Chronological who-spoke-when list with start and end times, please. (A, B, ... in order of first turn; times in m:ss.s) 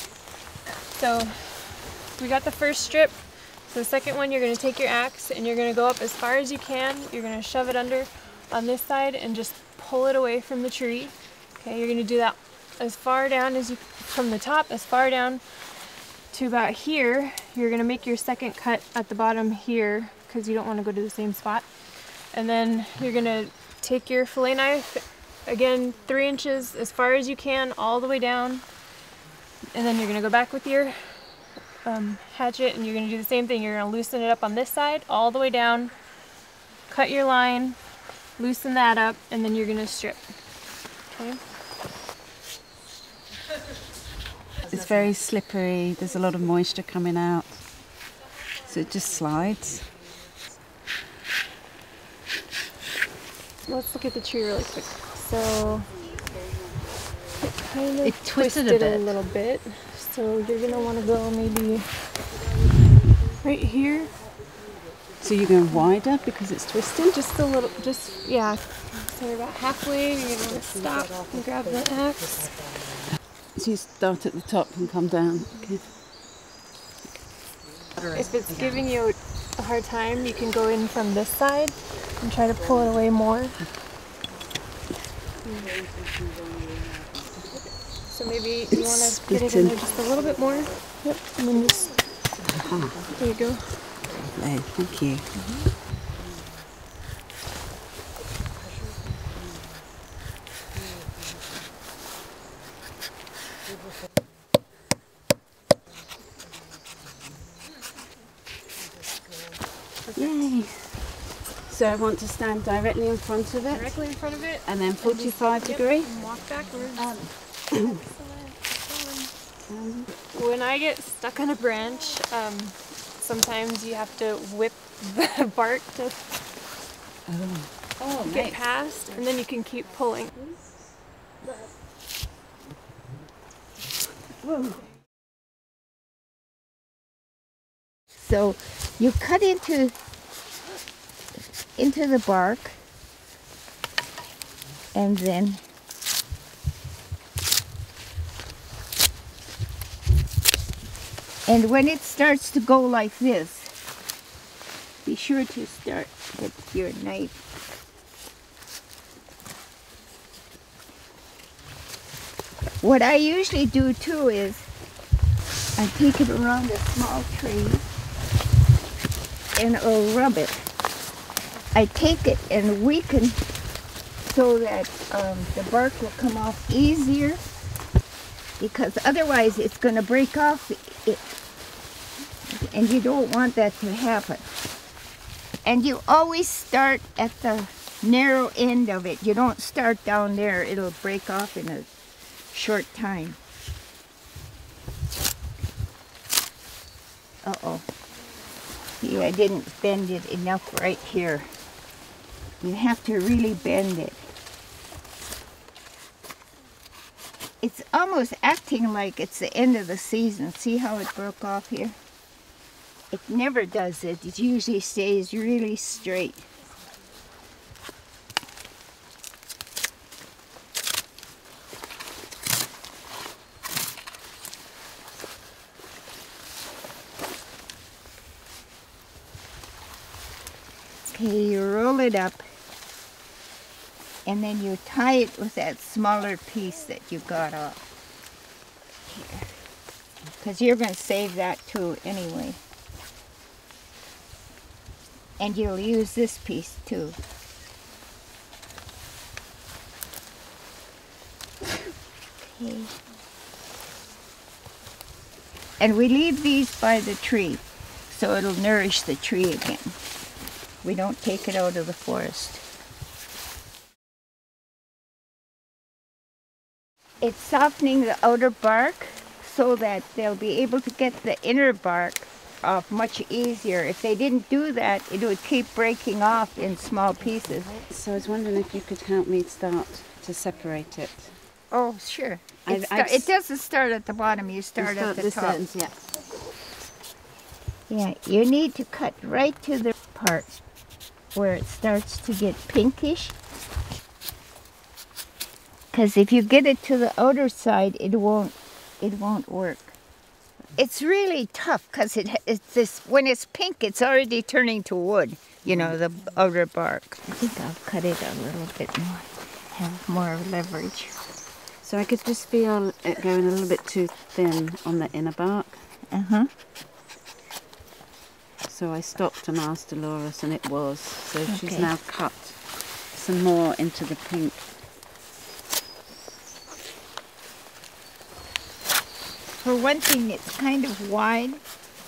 0:00.9-0:15.4 A
0:16.3-0:21.7 A
0:22.3-0:28.6 A
0:29.7-0:35.9 A
0:36.9-0:37.8 A
0:38.4-0:40.3 A
0:41.1-0:41.4 A
0:44.6-0:47.7 B
0:48.6-0:49.9 B
0:53.6-0:55.9 A
0:56.1-0:57.2 B
0:57.4-1:01.9 A
0:58.0-0:59.1 B
1:03.4-1:04.1 A
1:05.2-1:07.1 B
1:05.7-1:06.0 A
1:06.7-1:12.5 A
1:13.6-1:15.9 B
1:18.1-1:23.6 A
1:25.4-1:25.7 A
1:25.5-1:27.5 B
1:28.1-1:32.0 A
1:28.7-1:29.8 B
1:32.5-1:33.1 B
1:33.1-1:33.9 A
1:34.2-1:35.3 B
1:50.1-1:51.1 B
1:51.6-1:53.9 B
1:53.7-1:57.1 A
1:54.6-1:56.1 B
1:57.0-1:57.9 B
1:57.8-1:59.3 A
1:59.7-2:00.1 B
2:00.3-2:06.3 A
2:07.3-2:08.6 B
2:08.2-2:10.3 A
2:10.4-2:10.7 B
2:14.4-2:14.8 B
2:18.1-2:20.0 C
2:21.8-2:22.8 C
2:24.9-2:25.6 C
2:31.5-2:33.7 C
2:35.0-2:37.4 C
2:42.8-2:44.7 C
2:45.8-2:47.8 C
2:49.6-2:50.6 C
2:51.7-2:53.4 C
2:54.3-2:57.4 C
2:58.6-3:01.3 C
3:02.5-3:04.5 C
3:05.6-3:11.9 C
3:12.5-3:13.4 C
3:17.4-3:17.8 C
3:19.0-3:21.5 C
3:22.6-3:24.2 C
3:27.6-3:32.0 C
3:33.1-3:36.5 C
3:51.1-3:52.4 C
3:54.2-3:57.8 C
3:59.1-3:59.6 C
4:00.4-4:02.6 C
4:05.4-4:07.2 C
4:12.4-4:12.9 C
4:15.8-4:20.0 C
4:20.8-4:22.6 C
4:27.2-4:37.8 C
4:37.8-4:41.4 B
4:41.7-4:45.6 C
4:42.7-4:43.3 B
4:44.8-4:46.0 B
4:47.9-4:50.6 C
4:51.3-4:53.4 C
4:55.9-5:00.0 C
5:00.8-5:11.2 C
5:11.8-5:15.9 B
5:16.1-5:16.5 C
5:18.7-5:24.6 B
5:21.5-5:21.9 C
5:29.6-5:31.6 C